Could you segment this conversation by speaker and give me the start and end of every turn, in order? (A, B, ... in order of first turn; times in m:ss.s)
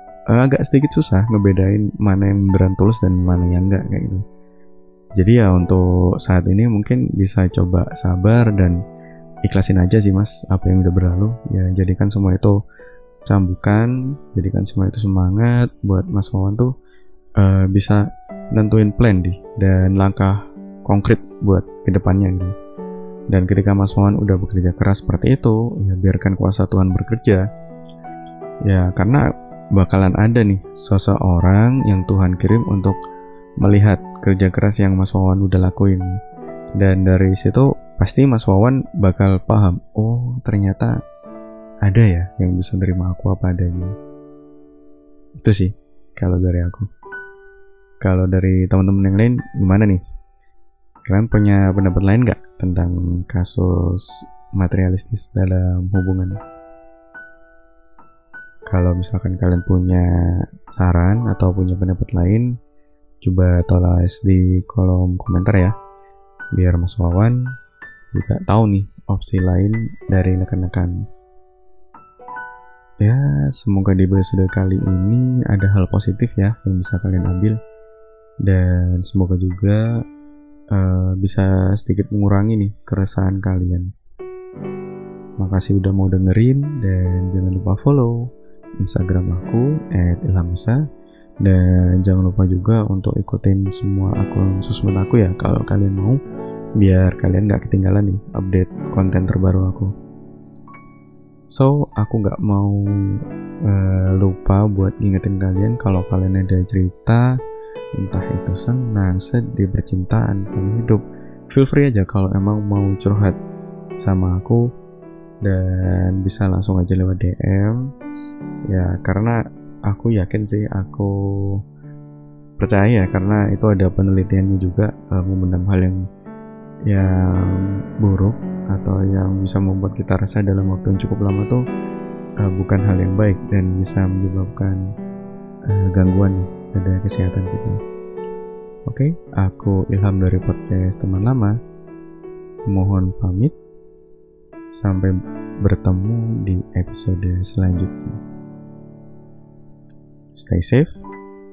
0:00.3-0:04.2 A
0:05.2-0:08.8 A
0:09.4-0:12.6 A
0:13.3-0:16.7 A
0:17.4-0:22.5 A
0:23.3-0:27.4 A
0:28.7-0:29.2 A
0:29.7-0:33.0 A
0:33.6-0:36.1 A
0:36.8-0:41.0 A
0:41.8-0:43.9 A
0:45.4-0:46.9 A
0:48.0-0:50.0 A
0:51.0-0:56.4 A
0:58.7-1:00.0 A
1:00.7-1:02.5 A
1:03.2-1:05.7 A
1:06.6-1:07.4 A
1:08.1-1:11.0 A
1:13.0-1:17.6 A
1:18.4-1:19.8 A
1:20.7-1:23.9 A
1:25.4-1:28.2 A
1:28.8-1:30.8 A
1:31.4-1:36.2 A
1:36.8-1:39.9 A
1:41.5-1:47.3 A
1:48.0-1:53.4 A
1:54.0-1:54.6 A
1:55.4-1:57.8 A
1:58.7-2:01.6 A
2:02.6-2:06.0 A
2:06.9-2:11.6 A
2:12.4-2:14.8 A
2:15.7-2:17.8 A
2:18.9-2:21.5 A
2:22.7-2:23.5 A
2:24.8-2:25.1 A
2:25.6-2:28.2 A
2:30.3-2:31.0 A